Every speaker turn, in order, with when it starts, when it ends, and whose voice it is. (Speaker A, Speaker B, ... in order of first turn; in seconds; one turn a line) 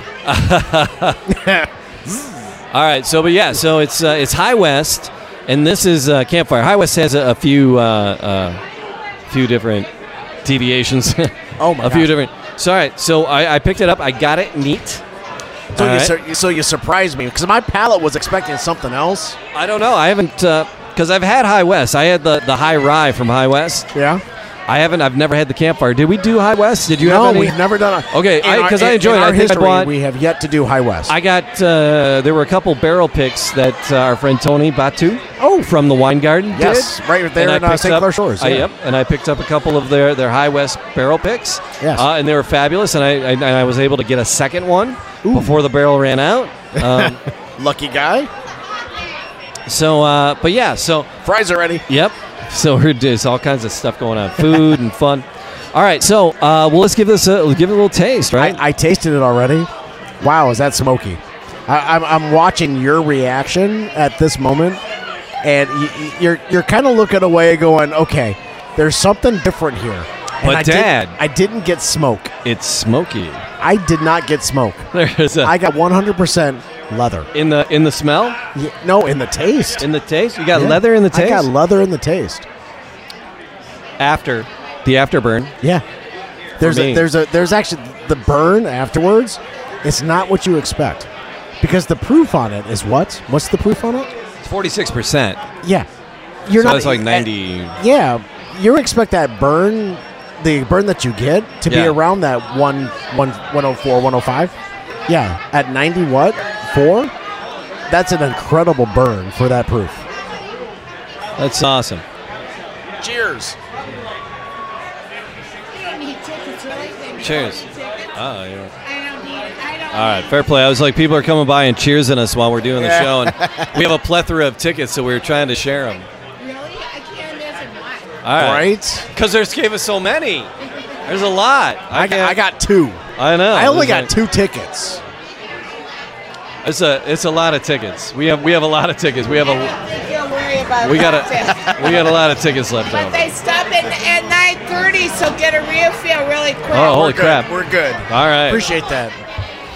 Speaker A: 0.2-1.2
Speaker B: 1.3-2.3
Speaker A: 2.7-8.6
Speaker A: 9.3-9.9
Speaker A: 10.4-15.0
Speaker B: 11.6-12.1
Speaker B: 15.7-19.4
Speaker A: 15.8-16.1
Speaker A: 19.5-23.9
Speaker B: 23.9-24.2
Speaker A: 24.7-27.6
Speaker B: 27.0-31.1
Speaker A: 28.1-29.9
Speaker A: 31.1-47.2
Speaker B: 35.4-35.7
Speaker B: 36.5-38.7
Speaker B: 41.8-42.1
Speaker B: 45.2-45.6
Speaker B: 46.8-48.3
Speaker A: 49.7-51.1
Speaker B: 51.2-51.8
Speaker A: 51.9-58.6
Speaker B: 58.4-59.7
Speaker B: 60.2-64.8
Speaker B: 65.4-72.3
Speaker A: 70.4-71.2
Speaker A: 72.5-73.4
Speaker B: 73.6-74.9
Speaker A: 74.9-75.5
Speaker B: 75.4-77.3
Speaker A: 77.3-78.4
Speaker B: 78.5-79.9
Speaker A: 79.8-81.5
Speaker B: 80.5-82.5
Speaker A: 84.0-85.5
Speaker B: 86.6-91.1
Speaker A: 86.6-87.1
Speaker B: 91.6-94.1
Speaker A: 94.4-95.4
Speaker B: 96.5-104.5
Speaker A: 96.6-97.8
Speaker A: 101.7-102.0
Speaker B: 105.1-107.1
Speaker B: 107.9-110.0
Speaker A: 111.4-112.0
Speaker B: 113.0-113.6
Speaker C: 115.7-118.1
Speaker A: 117.2-118.7
Speaker C: 118.8-120.2
Speaker A: 119.9-126.1
Speaker B: 122.8-123.8
Speaker C: 126.4-128.1
Speaker A: 128.2-130.5
Speaker B: 128.4-129.1
Speaker A: 131.1-132.4
Speaker B: 131.9-135.0
Speaker A: 133.2-134.1
Speaker A: 136.6-139.8
Speaker C: 139.7-142.2
Speaker A: 140.8-143.3
Speaker C: 142.9-146.9
Speaker B: 146.7-149.2
Speaker A: 146.7-147.5
Speaker A: 148.1-148.7